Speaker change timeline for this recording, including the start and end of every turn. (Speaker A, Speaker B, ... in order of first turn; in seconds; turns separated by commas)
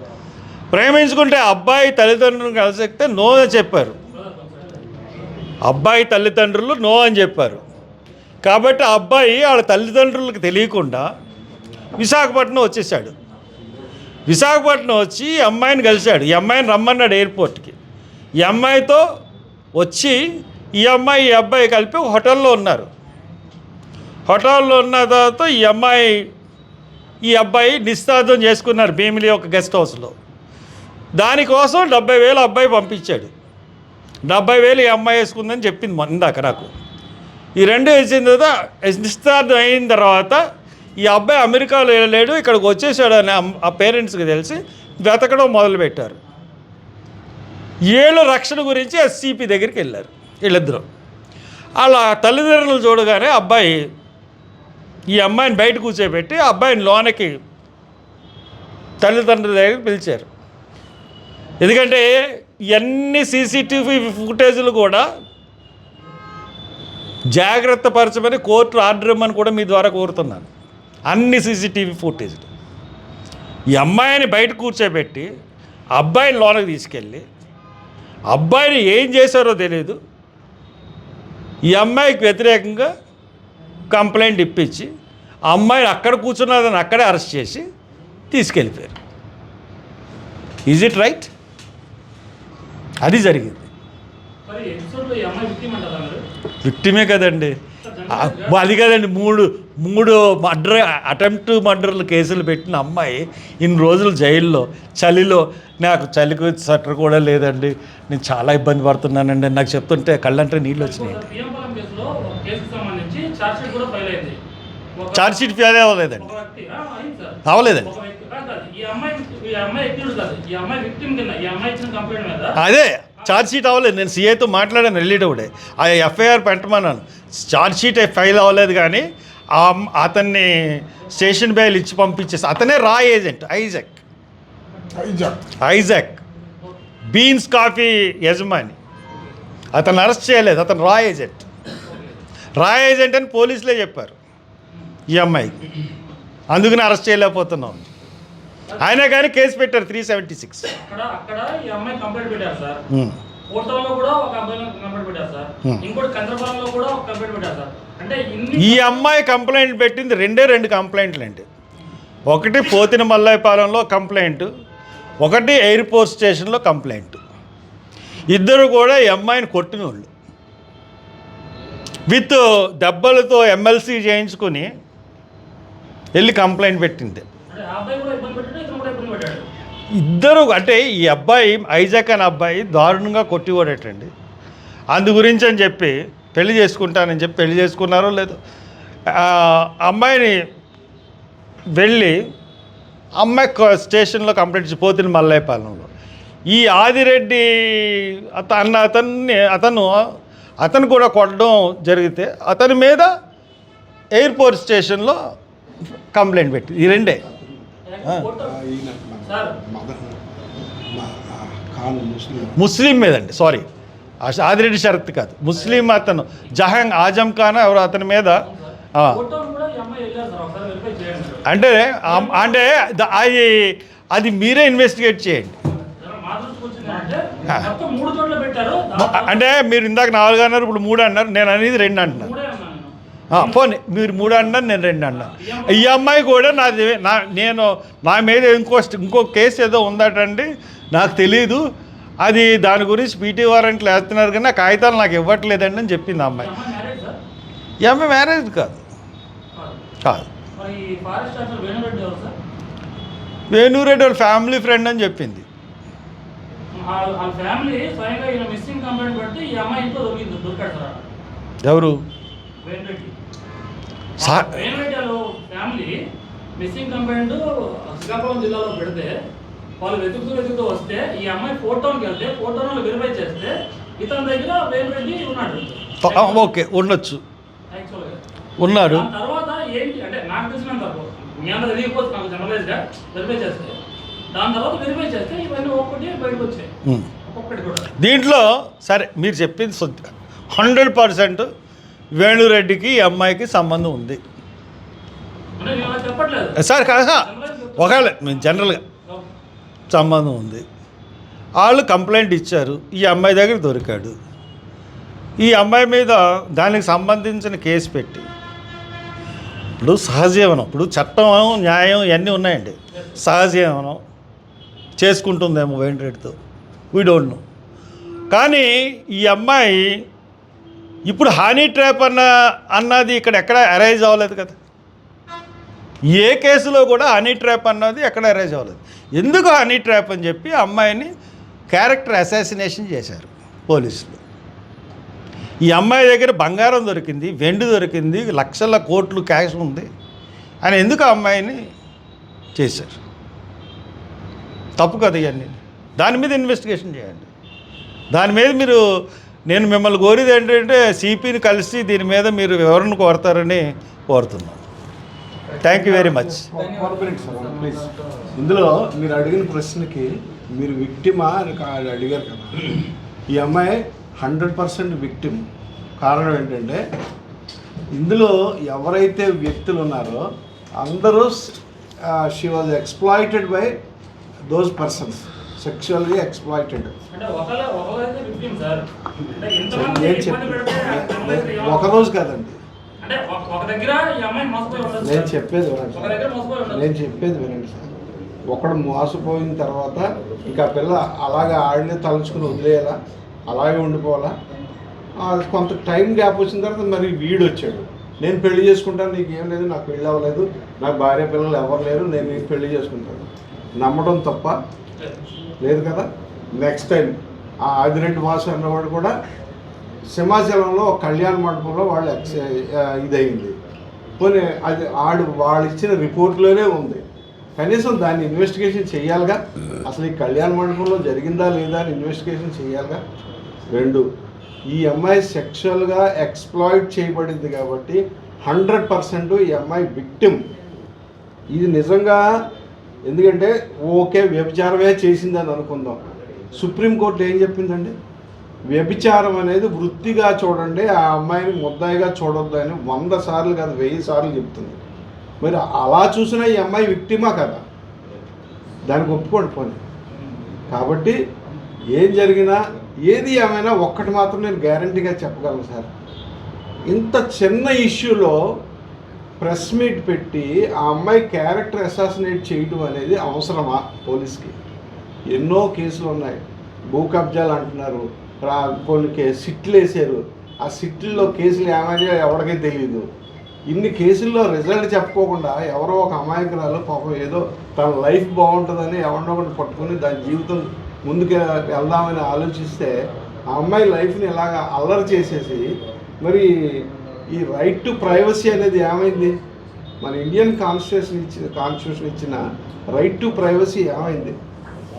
Speaker A: 0.7-4.0, Speaker B: 4.1-4.8, Speaker A: 5.6-7.6, Speaker A: 8.4-11.1, Speaker A: 12.0-13.1, Speaker A: 14.3-17.8, Speaker A: 18.4-19.0, Speaker A: 19.8-20.2, Speaker A: 20.8-22.9, Speaker A: 24.3-26.3, Speaker A: 27.2-30.1, Speaker A: 31.2-33.3, Speaker A: 34.3-36.7, Speaker A: 37.6-40.4, Speaker A: 41.0-46.2, Speaker A: 47.9-50.9, Speaker A: 51.8-53.9, Speaker A: 55.1-57.4, Speaker A: 59.0-60.3, Speaker A: 61.6-62.1, Speaker A: 62.7-65.1, Speaker A: 67.3-70.5, Speaker A: 71.1-72.5, Speaker A: 73.7-75.3, Speaker A: 76.0-77.2, Speaker A: 78.3-80.0, Speaker A: 81.7-82.9, Speaker A: 83.9-84.9, Speaker A: 85.5-87.6, Speaker A: 88.3-89.0, Speaker A: 90.7-91.3, Speaker A: 93.0-93.7, Speaker B: 94.5-96.2, Speaker A: 96.6-97.5, Speaker B: 97.8-98.7, Speaker A: 98.1-111.2, Speaker B: 110.8-114.4, Speaker B: 115.0-115.6, Speaker A: 115.1-116.3, Speaker B: 116.1-122.6, Speaker A: 117.5-117.9, Speaker A: 122.6-134.0, Speaker A: 135.6-136.2, Speaker A: 137.1-138.8, Speaker A: 139.7-141.4, Speaker B: 141.9-142.1, Speaker A: 142.6-144.1, Speaker A: 145.1-145.7, Speaker A: 146.5-147.9, Speaker A: 148.8-150.7, Speaker B: 150.8-152.8, Speaker A: 152.9-153.2, Speaker B: 153.5-159.1, Speaker A: 158.6-161.4, Speaker A: 162.3-164.5, Speaker A: 165.2-167.2, Speaker A: 168.3-170.1, Speaker A: 172.1-174.7, Speaker A: 176.2-177.2, Speaker B: 177.5-179.5, Speaker A: 180.0-184.1, Speaker A: 184.9-188.4, Speaker A: 189.1-190.4, Speaker A: 191.8-192.1, Speaker A: 193.2-195.9, Speaker A: 196.5-199.9, Speaker A: 200.6-203.1, Speaker A: 204.1-205.2, Speaker A: 206.1-207.2, Speaker C: 207.2-207.6, Speaker B: 207.9-208.6, Speaker C: 208.4-210.1, Speaker B: 209.2-209.6, Speaker C: 210.9-212.6, Speaker A: 212.6-213.6, Speaker A: 214.2-218.4, Speaker B: 218.4-221.5, Speaker A: 221.5-225.6, Speaker B: 222.0-222.7, Speaker B: 225.8-229.5, Speaker A: 229.0-232.3, Speaker B: 232.1-233.6, Speaker A: 233.3-241.6, Speaker B: 235.1-236.3, Speaker A: 242.2-246.5, Speaker B: 246.4-247.2, Speaker A: 247.8-248.8, Speaker B: 249.5-249.8, Speaker A: 250.0-250.3, Speaker B: 250.5-252.3, Speaker A: 253.5-255.4, Speaker B: 256.7-261.0, Speaker A: 261.6-262.0, Speaker B: 262.6-263.1, Speaker B: 264.2-266.0, Speaker A: 264.2-264.6, Speaker B: 266.6-269.2, Speaker B: 269.8-276.5, Speaker A: 276.0-277.2, Speaker B: 277.7-283.8, Speaker A: 278.6-279.1, Speaker B: 284.3-286.7, Speaker B: 287.2-287.9, Speaker A: 288.0-291.5, Speaker A: 292.2-294.2, Speaker B: 295.6-299.2, Speaker A: 296.6-298.8, Speaker A: 299.9-300.6, Speaker A: 301.6-304.1, Speaker A: 305.4-308.2, Speaker A: 309.8-314.0, Speaker A: 315.0-316.4, Speaker A: 316.9-317.4, Speaker A: 318.3-319.9, Speaker A: 321.1-324.6, Speaker A: 326.1-331.1, Speaker A: 331.7-334.2, Speaker A: 335.7-339.9, Speaker A: 340.6-341.6, Speaker A: 342.6-343.0, Speaker A: 344.8-347.3, Speaker A: 348.1-348.8, Speaker A: 349.5-354.6, Speaker B: 355.5-358.3, Speaker A: 355.6-356.4, Speaker C: 356.3-365.4, Speaker C: 366.0-366.8, Speaker C: 368.0-370.2, Speaker C: 370.8-373.8, Speaker C: 374.5-376.9, Speaker B: 377.1-382.0, Speaker C: 379.7-382.6, Speaker B: 383.0-385.3, Speaker C: 385.0-387.9, Speaker B: 385.9-386.9, Speaker C: 388.5-393.0, Speaker C: 393.5-394.3, Speaker C: 395.2-404.6, Speaker C: 405.6-409.1, Speaker C: 410.1-413.5, Speaker C: 414.2-417.0, Speaker C: 417.6-423.0, Speaker C: 423.7-424.0, Speaker C: 424.7-430.4, Speaker C: 431.5-432.2, Speaker C: 433.1-436.0, Speaker C: 436.6-437.9, Speaker C: 438.7-444.8, Speaker C: 445.4-447.6, Speaker C: 448.9-449.8, Speaker C: 450.7-451.2, Speaker C: 451.9-455.9, Speaker C: 456.9-458.4, Speaker C: 459.4-464.5, Speaker C: 465.3-466.4, Speaker C: 466.9-473.1, Speaker C: 473.7-482.9, Speaker C: 483.5-485.7, Speaker C: 486.2-489.4, Speaker C: 490.0-494.3